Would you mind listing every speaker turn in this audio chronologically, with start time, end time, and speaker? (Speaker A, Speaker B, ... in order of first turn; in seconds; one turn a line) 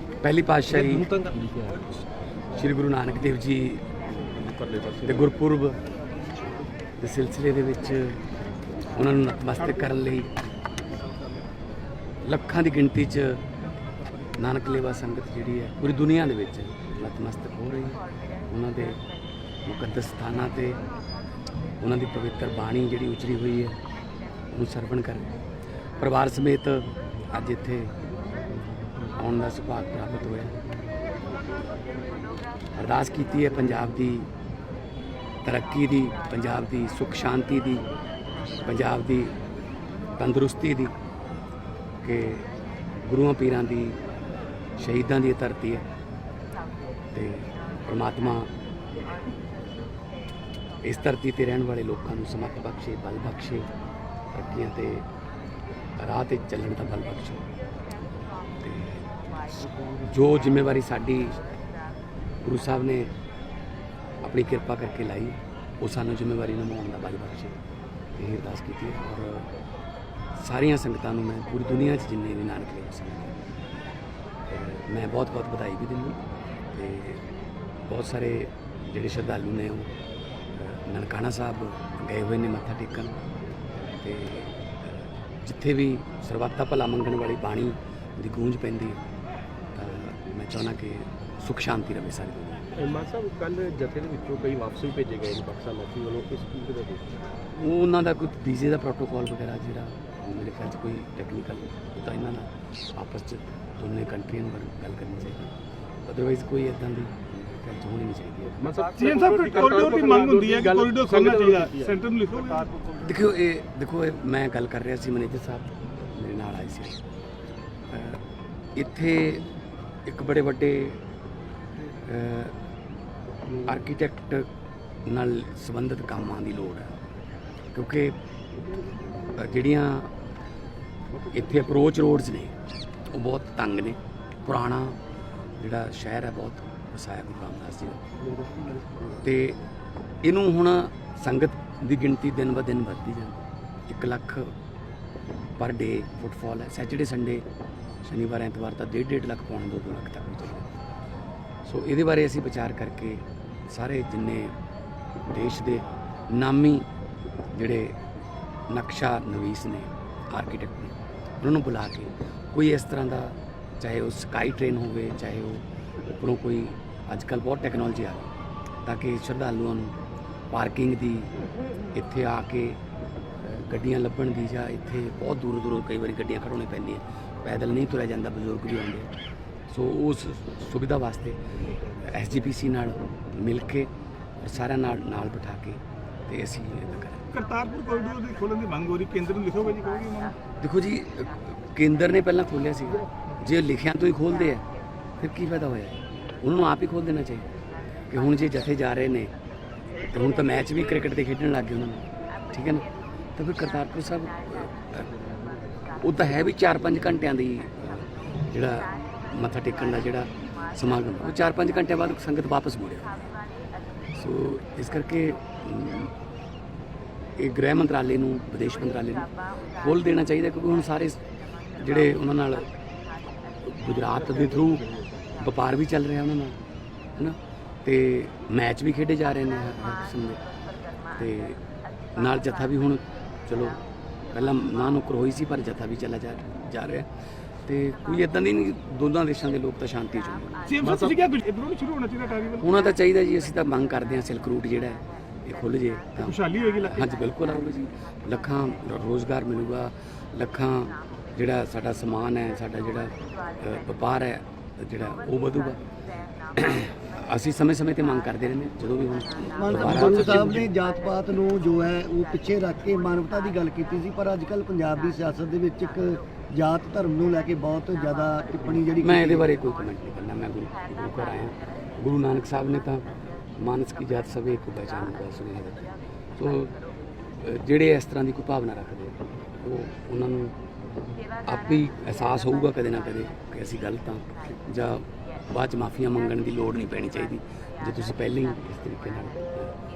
Speaker A: 0.2-1.1
Speaker B: 0.7-1.9
Speaker A: 2.5-3.8
Speaker B: 4.1-5.3
Speaker A: 5.0-5.8
Speaker A: 7.0-8.2
Speaker A: 8.9-10.3
Speaker A: 12.2-13.4
Speaker A: 14.3-19.0
Speaker A: 19.6-20.8
Speaker A: 21.8-23.8
Speaker A: 24.5-25.3
Speaker A: 26.0-27.9
Speaker A: 29.1-30.5
Speaker A: 32.8-34.3
Speaker A: 35.4-37.8
Speaker A: 38.6-39.3
Speaker A: 40.1-40.9
Speaker A: 42.0-42.5
Speaker A: 43.0-44.0
Speaker A: 44.8-45.9
Speaker A: 47.1-48.5
Speaker A: 50.8-53.7
Speaker A: 54.3-55.0
Speaker A: 56.0-57.4
Speaker A: 58.6-59.0
Speaker A: 60.0-61.4
Speaker A: 62.4-63.1
Speaker A: 64.2-67.6
Speaker A: 68.1-69.5
Speaker A: 70.3-73.4
Speaker A: 74.5-76.2
Speaker A: 76.7-77.2
Speaker A: 77.8-79.9
Speaker A: 80.5-83.3
Speaker A: 83.9-89.0
Speaker A: 89.7-92.8
Speaker B: 92.8-97.3
Speaker A: 97.5-105.5
Speaker A: 106.0-108.7
Speaker B: 108.6-112.0
Speaker C: 108.9-112.7
Speaker A: 113.0-117.0
Speaker A: 117.9-118.2
Speaker A: 118.8-119.5
Speaker A: 120.0-121.0
Speaker A: 122.0-122.5
Speaker A: 123.6-124.5
Speaker A: 125.0-126.9
Speaker A: 127.7-128.2
Speaker A: 129.3-130.1
Speaker A: 131.2-132.6
Speaker A: 133.1-135.0
Speaker A: 135.6-138.0
Speaker B: 138.3-139.1
Speaker A: 139.2-139.6
Speaker A: 140.2-144.5
Speaker A: 145.6-147.4
Speaker A: 148.0-150.7
Speaker A: 151.6-154.5
Speaker A: 155.3-156.9
Speaker A: 157.5-158.0
Speaker A: 158.7-168.3
Speaker A: 168.8-169.9
Speaker A: 170.5-171.3
Speaker A: 171.9-172.8
Speaker A: 173.4-179.1
Speaker A: 179.7-181.4
Speaker A: 181.9-187.3
Speaker C: 187.3-190.3
Speaker A: 190.6-194.6
Speaker A: 195.2-197.5
Speaker A: 198.1-199.3
Speaker A: 200.1-205.1
Speaker A: 206.0-213.1
Speaker A: 214.1-216.1
Speaker A: 217.3-222.7
Speaker A: 223.6-226.6
Speaker A: 227.2-230.4
Speaker A: 231.1-231.6
Speaker A: 232.1-237.1
Speaker A: 237.6-240.6
Speaker C: 240.6-242.7
Speaker B: 240.8-241.1
Speaker A: 242.6-255.8
Speaker C: 246.2-247.0
Speaker A: 256.5-260.7
Speaker D: 259.5-269.5
Speaker A: 269.0-273.0
Speaker A: 273.6-276.8
Speaker A: 277.4-280.6
Speaker A: 281.4-289.8